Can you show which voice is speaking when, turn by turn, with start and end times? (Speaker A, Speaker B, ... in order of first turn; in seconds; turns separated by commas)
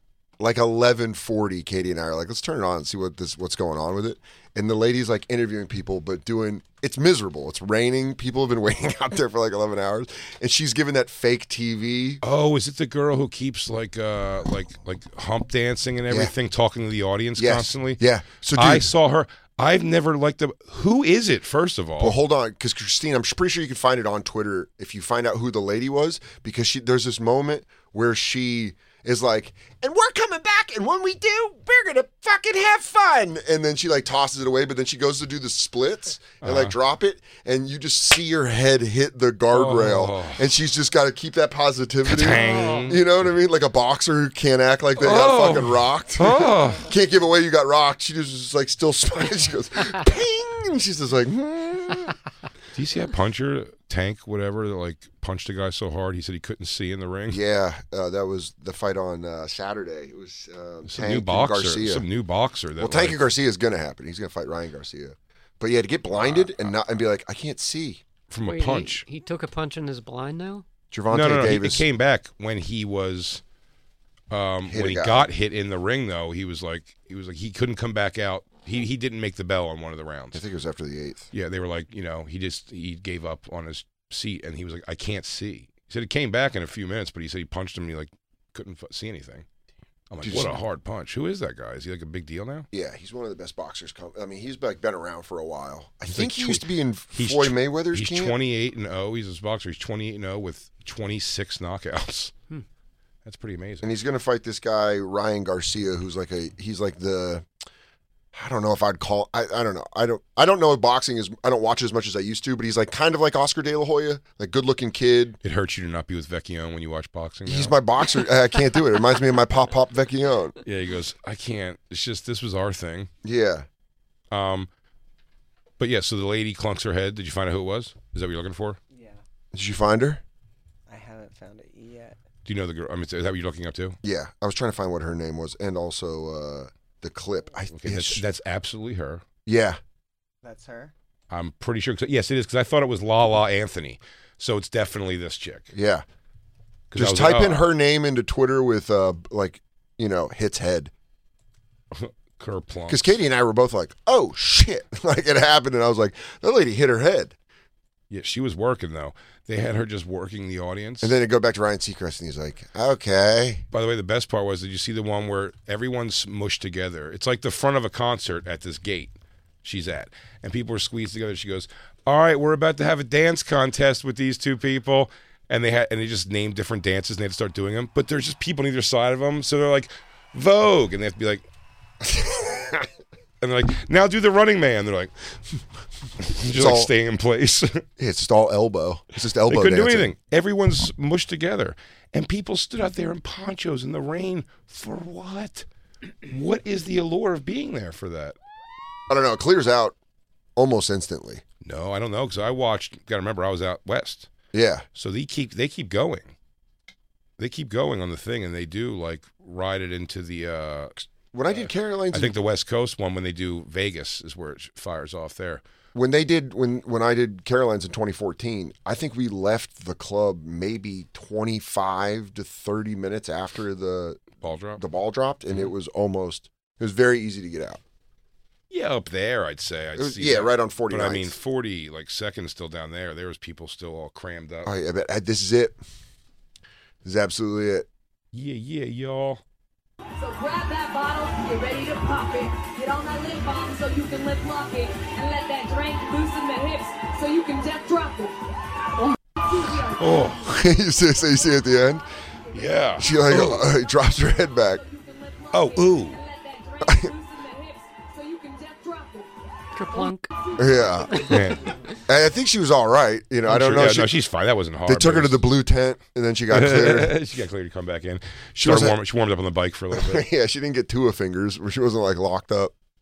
Speaker A: 0.4-12.2, Speaker B: 12.2-18.0, Speaker A: 17.4-18.9, Speaker B: 18.6-22.2, Speaker A: 22.0-52.2, Speaker B: 36.4-36.8, Speaker B: 39.5-40.4, Speaker B: 42.0-43.0, Speaker C: 42.4-42.8, Speaker D: 42.5-42.8, Speaker B: 45.0-46.9, Speaker B: 52.8-57.4, Speaker A: 57.3-62.1, Speaker B: 60.9-63.2, Speaker A: 62.8-68.0, Speaker B: 66.1-66.7, Speaker B: 68.3-69.0, Speaker C: 68.5-70.7, Speaker A: 70.9-71.8, Speaker B: 71.1-73.4, Speaker B: 74.3-80.4, Speaker A: 74.7-75.3, Speaker A: 80.3-81.3, Speaker B: 81.3-89.5, Speaker B: 90.1-92.7, Speaker A: 90.2-90.6, Speaker A: 92.7-98.4, Speaker B: 96.1-102.3, Speaker B: 103.2-103.9, Speaker A: 103.8-107.5, Speaker A: 108.3-115.4, Speaker B: 115.4-117.8, Speaker A: 117.5-120.6, Speaker B: 120.7-123.1, Speaker A: 123.2-123.7, Speaker B: 124.3-124.7, Speaker B: 125.8-128.8, Speaker D: 128.9-129.2, Speaker A: 129.5-130.2, Speaker D: 130.9-132.2, Speaker B: 132.4-134.0, Speaker A: 134.0-138.2, Speaker B: 137.7-139.2, Speaker A: 139.5-139.8, Speaker D: 140.4-140.9, Speaker B: 141.3-145.7, Speaker A: 145.7-146.1, Speaker B: 146.9-147.7, Speaker A: 146.9-150.9, Speaker B: 151.9-153.2, Speaker A: 152.9-157.3, Speaker B: 158.1-161.2, Speaker A: 161.0-163.7, Speaker B: 163.7-181.4, Speaker A: 182.1-182.9, Speaker B: 183.4-185.1, Speaker B: 186.2-187.8, Speaker A: 186.5-186.9, Speaker A: 188.0-190.1, Speaker B: 189.5-195.7, Speaker B: 196.3-198.4, Speaker A: 199.1-199.9, Speaker A: 200.6-201.4, Speaker B: 201.6-204.3, Speaker A: 204.5-204.9, Speaker B: 205.0-206.3, Speaker B: 207.4-215.6, Speaker A: 211.3-212.4, Speaker A: 215.9-224.2, Speaker B: 224.4-224.8, Speaker A: 224.8-227.8, Speaker B: 228.7-234.7, Speaker A: 230.0-231.3, Speaker A: 234.7-235.8, Speaker A: 237.0-237.9, Speaker B: 238.3-239.4, Speaker E: 240.2-248.4, Speaker E: 249.4-250.2, Speaker B: 250.0-250.5, Speaker A: 250.5-252.0, Speaker E: 252.5-252.8, Speaker B: 252.5-253.7, Speaker A: 253.0-254.8, Speaker E: 254.2-261.5, Speaker B: 255.5-256.2, Speaker A: 256.9-257.1, Speaker C: 259.8-260.3, Speaker A: 260.6-261.3, Speaker B: 261.3-261.7, Speaker A: 262.1-264.1, Speaker B: 263.5-265.4, Speaker A: 264.9-267.2, Speaker B: 266.5-270.3, Speaker A: 268.6-269.0, Speaker A: 269.9-272.7